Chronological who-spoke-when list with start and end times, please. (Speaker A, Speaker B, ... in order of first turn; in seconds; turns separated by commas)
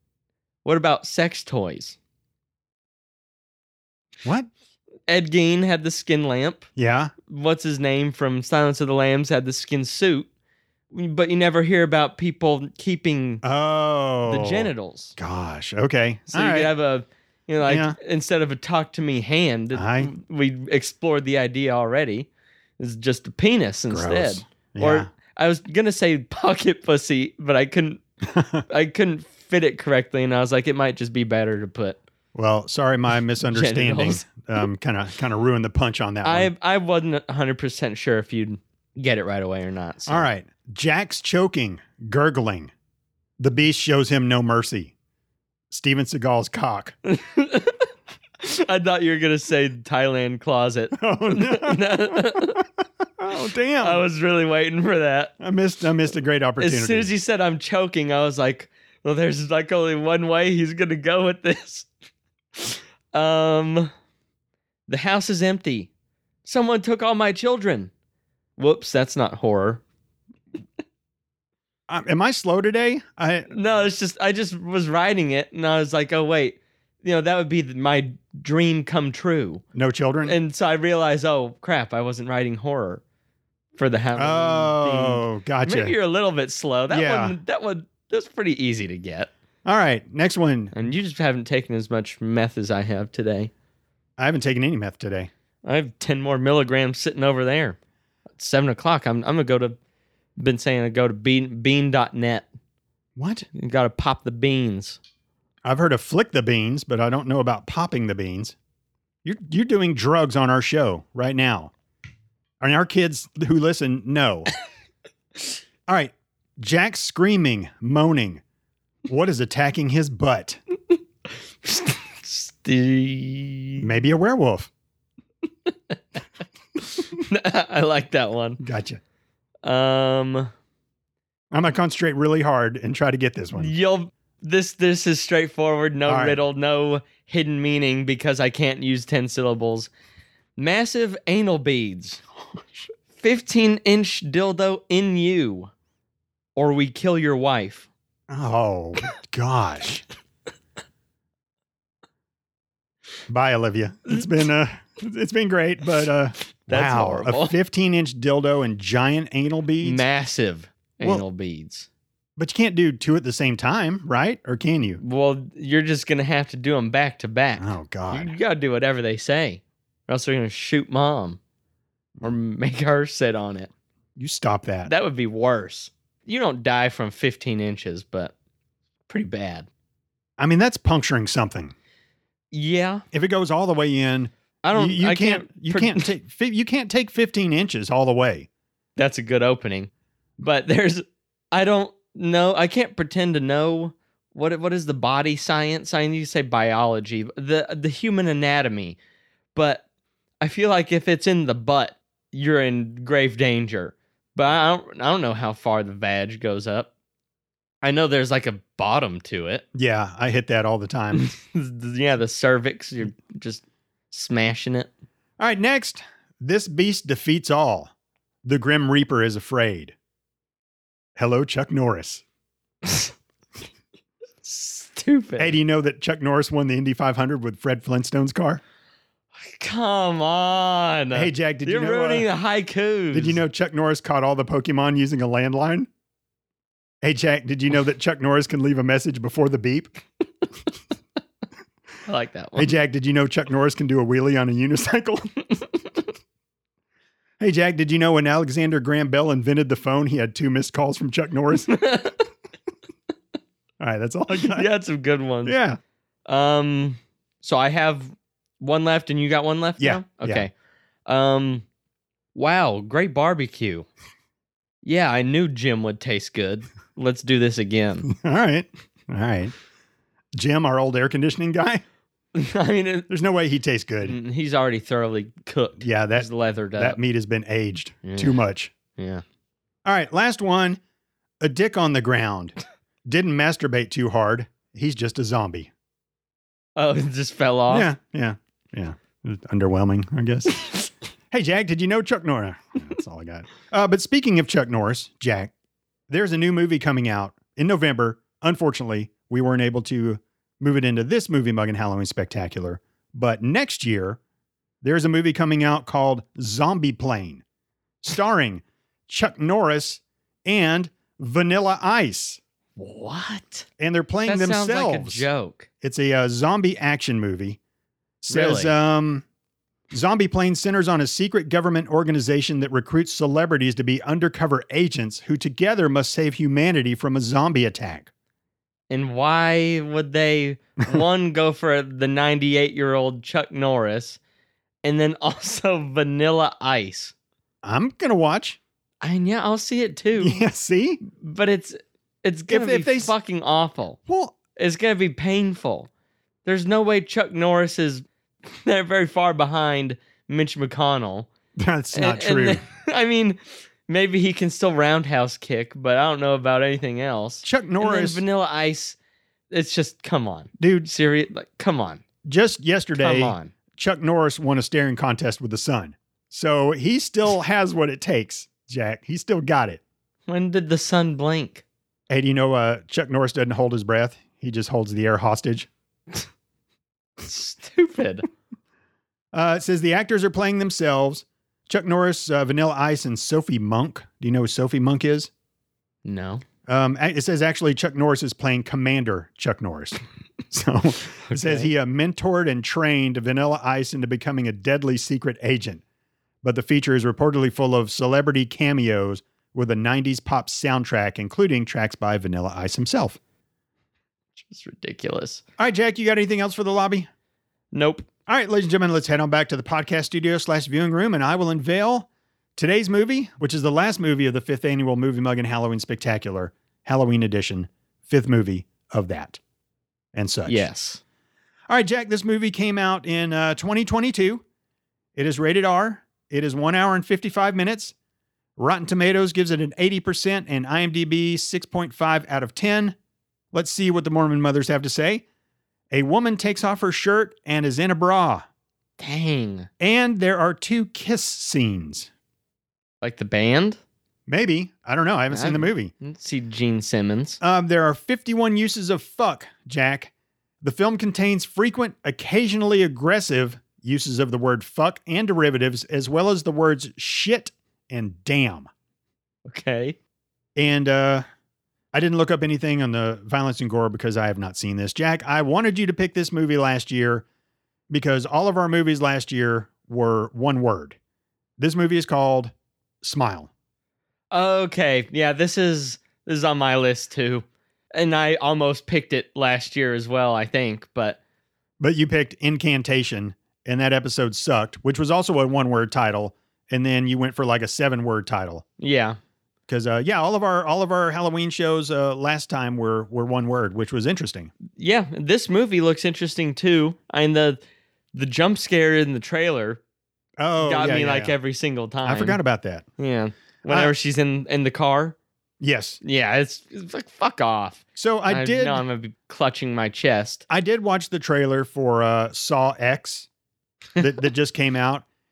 Speaker A: 0.6-2.0, Speaker A: 5.1-6.7, Speaker B: 6.8-7.1, Speaker A: 7.3-10.3, Speaker A: 10.9-13.4, Speaker B: 13.4-16.7, Speaker A: 14.2-15.2, Speaker A: 16.3-22.3, Speaker B: 17.6-18.0, Speaker B: 19.7-20.1, Speaker A: 22.8-28.0, Speaker B: 23.9-25.1, Speaker B: 28.3-28.6, Speaker A: 28.7-32.0, Speaker B: 32.3-36.5, Speaker A: 33.4-34.4, Speaker A: 36.2-40.3, Speaker B: 40.1-42.7, Speaker B: 43.4-44.9, Speaker B: 45.7-47.0, Speaker A: 47.0-47.9, Speaker A: 48.4-52.6, Speaker B: 50.9-52.6, Speaker B: 53.2-54.0, Speaker A: 53.8-55.3, Speaker B: 55.4-57.1, Speaker A: 56.6-61.9, Speaker A: 62.6-63.9, Speaker A: 64.9-65.9, Speaker A: 66.4-67.9, Speaker A: 68.6-69.8, Speaker B: 71.9-73.5, Speaker A: 73.5-79.6, Speaker B: 79.7-80.4, Speaker A: 80.2-83.0, Speaker A: 83.8-89.3, Speaker B: 84.2-86.0, Speaker B: 86.9-87.4, Speaker B: 89.6-90.7, Speaker A: 90.7-93.5, Speaker B: 94.2-95.3, Speaker A: 95.6-97.8, Speaker A: 98.4-99.8, Speaker A: 100.4-102.5, Speaker B: 103.2-103.5, Speaker A: 103.5-105.0, Speaker B: 105.6-108.5, Speaker B: 109.2-111.7, Speaker B: 112.6-114.5, Speaker B: 115.9-118.4, Speaker B: 119.1-120.6, Speaker A: 121.6-123.9, Speaker B: 123.8-124.7, Speaker A: 126.8-128.6, Speaker B: 128.6-129.0, Speaker A: 129.6-130.5, Speaker B: 131.5-133.7, Speaker A: 133.6-139.9, Speaker B: 136.1-136.4, Speaker A: 140.6-142.2, Speaker A: 143.2-145.7, Speaker A: 146.6-147.9, Speaker B: 148.3-150.0, Speaker B: 153.3-160.0, Speaker A: 156.7-157.5, Speaker A: 159.8-161.9, Speaker B: 162.4-165.0, Speaker A: 165.0-171.4, Speaker B: 167.6-168.4, Speaker A: 172.2-173.7, Speaker B: 174.2-174.9, Speaker A: 174.8-178.3, Speaker A: 179.1-179.7, Speaker B: 180.4-181.7, Speaker A: 182.5-183.0, Speaker B: 183.1-188.5, Speaker A: 184.6-186.1, Speaker A: 188.9-199.0, Speaker A: 199.5-199.8, Speaker A: 200.4-206.9, Speaker A: 207.8-209.6, Speaker B: 209.7-211.3, Speaker A: 211.1-214.9, Speaker B: 215.4-217.9, Speaker B: 218.4-219.9, Speaker B: 221.2-222.2, Speaker A: 222.8-223.1, Speaker A: 224.4-225.6, Speaker B: 225.4-228.6, Speaker A: 229.5-233.4, Speaker B: 231.1-232.3, Speaker B: 233.1-235.9, Speaker B: 237.0-239.9, Speaker A: 242.1-242.7, Speaker B: 242.6-245.4, Speaker B: 247.4-251.8, Speaker A: 251.7-252.2, Speaker B: 253.8-254.7, Speaker A: 254.4-255.6, Speaker B: 255.4-255.8, Speaker A: 256.3-260.5, Speaker B: 259.8-260.5, Speaker A: 261.1-261.6, Speaker A: 262.3-263.9, Speaker A: 264.8-268.1, Speaker B: 268.0-269.5, Speaker B: 270.4-271.8, Speaker A: 272.3-273.1, Speaker B: 273.1-274.2, Speaker A: 274.0-277.0, Speaker B: 275.8-278.7, Speaker A: 278.0-278.4, Speaker A: 278.9-279.2, Speaker B: 279.8-280.8, Speaker B: 281.4-285.7, Speaker A: 286.8-287.9, Speaker B: 287.7-290.7, Speaker B: 291.3-295.5, Speaker B: 296.1-304.2, Speaker B: 304.8-307.4, Speaker B: 308.0-312.4, Speaker A: 312.8-313.7, Speaker B: 313.8-315.3, Speaker A: 314.2-315.7, Speaker B: 315.8-317.6, Speaker B: 318.2-319.2, Speaker A: 318.3-318.7, Speaker B: 319.9-328.1, Speaker A: 328.9-334.2, Speaker A: 334.8-337.1, Speaker B: 337.6-338.6, Speaker A: 339.0-340.4, Speaker B: 340.2-341.0, Speaker A: 341.0-344.0, Speaker B: 342.5-343.1, Speaker B: 344.1-344.4, Speaker A: 344.6-345.9, Speaker A: 346.4-351.3, Speaker B: 351.6-352.6, Speaker A: 351.9-359.0, Speaker B: 357.4-358.2, Speaker A: 359.5-362.0, Speaker B: 360.6-360.9, Speaker B: 362.2-369.8, Speaker A: 363.0-363.5, Speaker A: 370.3-371.6, Speaker B: 372.1-375.7, Speaker A: 377.2-378.3, Speaker B: 379.3-385.3, Speaker A: 386.0-386.4, Speaker B: 386.7-395.8, Speaker A: 391.3-391.7, Speaker B: 396.4-403.2, Speaker A: 404.4-405.4, Speaker B: 405.6-407.1, Speaker A: 407.7-408.1, Speaker B: 408.3-419.4, Speaker B: 420.1-420.7, Speaker A: 420.5-421.0, Speaker B: 421.7-424.4, Speaker B: 425.1-427.9, Speaker B: 428.6-432.9, Speaker B: 433.5-435.2, Speaker B: 435.9-438.4, Speaker A: 439.0-439.7, Speaker B: 439.8-442.1, Speaker A: 443.0-443.8, Speaker B: 444.3-445.9, Speaker A: 445.3-447.4, Speaker B: 447.4-458.7, Speaker A: 459.4-460.0, Speaker B: 460.6-461.2, Speaker B: 461.9-467.2, Speaker B: 467.9-471.0, Speaker B: 471.6-473.5, Speaker A: 474.3-481.2, Speaker B: 481.8-488.6, Speaker A: 488.8-489.2, Speaker B: 489.7-494.5, Speaker A: 494.8-497.6, Speaker A: 498.1-499.8, Speaker B: 500.4-501.3, Speaker A: 500.6-502.4, Speaker B: 502.0-502.9, Speaker A: 503.0-505.1, Speaker B: 505.6-506.0, Speaker A: 506.0-510.4, Speaker B: 507.9-508.8, Speaker B: 510.5-513.3, Speaker B: 514.0-515.0